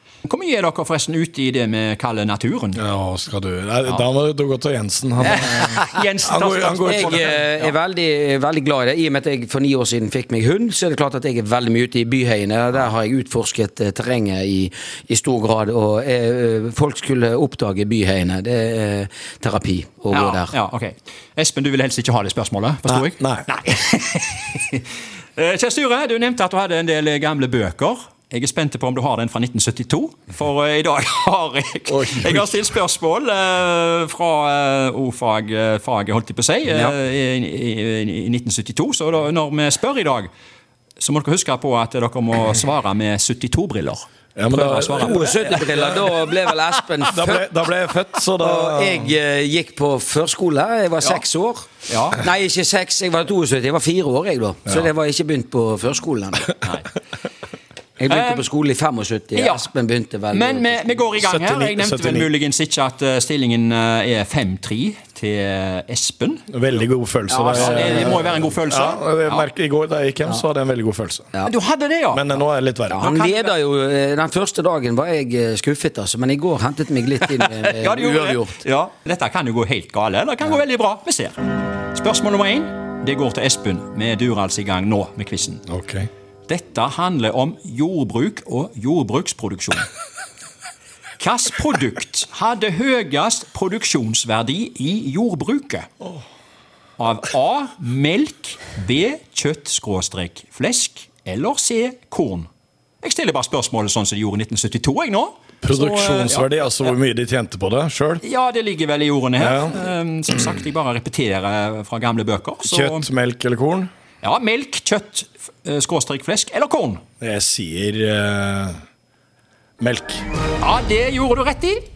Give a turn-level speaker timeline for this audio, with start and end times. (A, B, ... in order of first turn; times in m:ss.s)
0:00.2-0:02.8 A
0:02.8-0:07.4 B
0:05.2-0:07.7 A
0:06.8-0:20.5 C
0:20.1-0:40.3 A
0:22.9-0:23.4 B
0:31.9-0:32.6 B
0:41.0-0:45.9 A
0:44.4-0:46.0 B
0:44.5-0:56.6 C
0:47.1-0:49.1 B
0:51.9-0:52.2 A
0:56.6-0:56.9 A
0:58.0-1:01.2 C
0:58.1-0:58.4 A
0:59.4-0:59.7 A
1:00.3-1:06.5 A
1:01.3-1:02.3 B
1:06.5-1:11.3 B
1:07.3-1:09.5 A
1:07.3-1:08.3 C
1:11.4-1:12.4 A
1:12.1-1:13.0 B
1:12.9-1:18.6 C
1:13.0-1:13.5 A
1:17.3-1:25.6 A
1:25.7-1:26.1 B
1:26.5-1:29.9 A
1:31.2-1:35.9 A
1:37.0-1:42.5 A
1:43.0-1:46.6 A
1:45.6-1:48.2 B
1:48.2-1:53.1 A
1:49.4-1:49.8 B
1:52.6-1:53.9 B
1:54.2-1:57.0 A
1:57.2-1:58.8 B
1:59.8-2:00.2 B
2:00.6-2:01.8 A